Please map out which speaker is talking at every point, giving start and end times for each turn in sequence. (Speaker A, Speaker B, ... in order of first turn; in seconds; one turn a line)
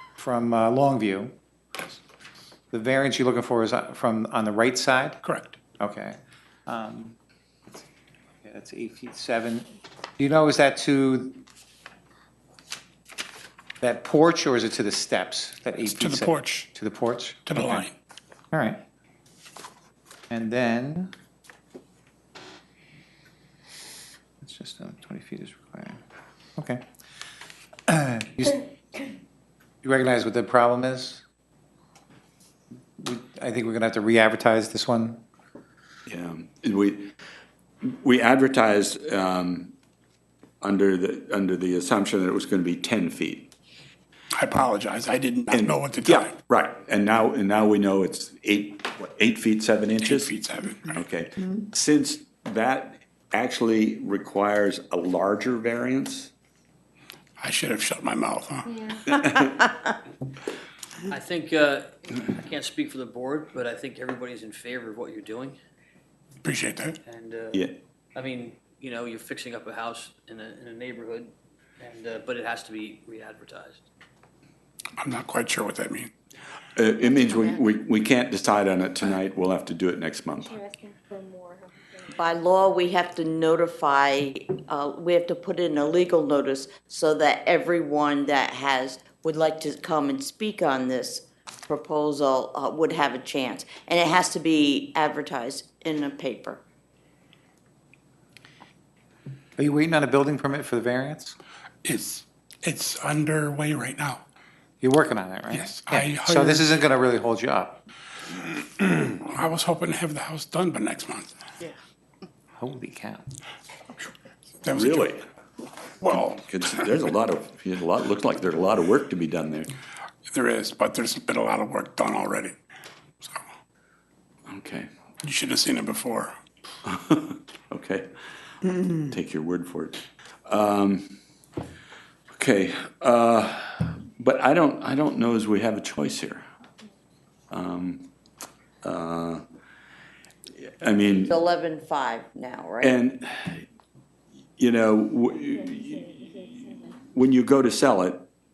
Speaker A: 0.2-1.3
Speaker A: 2.7-5.2
Speaker B: 5.2-5.6
Speaker A: 5.8-7.2
Speaker A: 8.4-11.4
Speaker A: 13.8-17.9
Speaker B: 15.8-16.7
Speaker B: 17.5-17.9
Speaker A: 18.5-18.8
Speaker A: 20.3-21.1
Speaker A: 24.4-26.0
Speaker A: 26.6-26.8
Speaker A: 27.9-28.6
Speaker A: 29.8-31.2
Speaker A: 33.0-35.2
Speaker C: 36.1-37.1
Speaker C: 37.8-39.7
Speaker C: 40.6-43.5
Speaker B: 44.4-46.3
Speaker C: 45.5-50.3
Speaker B: 50.0-51.0
Speaker C: 50.9-56.3
Speaker B: 57.4-58.8
Speaker D: 58.7-59.0
Speaker E: 61.1-65.6
Speaker B: 66.4-67.0
Speaker E: 67.0-73.8
Speaker C: 67.5-67.8
Speaker B: 75.0-76.1
Speaker C: 76.8-80.6
Speaker D: 80.5-82.1
Speaker F: 82.2-96.6
Speaker A: 99.6-101.4
Speaker B: 101.8-104.2
Speaker A: 104.8-107.8
Speaker B: 105.5-106.7
Speaker B: 108.6-111.3
Speaker A: 112.6-113.2
Speaker B: 114.6-115.1
Speaker C: 114.7-115.2
Speaker B: 116.0-116.5
Speaker C: 116.2-119.7
Speaker B: 120.3-122.6
Speaker C: 124.5-124.9
Speaker B: 125.2-126.3
Speaker C: 126.9-128.1
Speaker C: 128.7-131.2
Speaker C: 132.4-136.4
Speaker C: 137.5-138.1
Speaker C: 138.8-139.4
Speaker C: 140.8-141.4
Speaker F: 141.2-142.9
Speaker C: 142.8-143.6
Speaker C: 144.6-148.2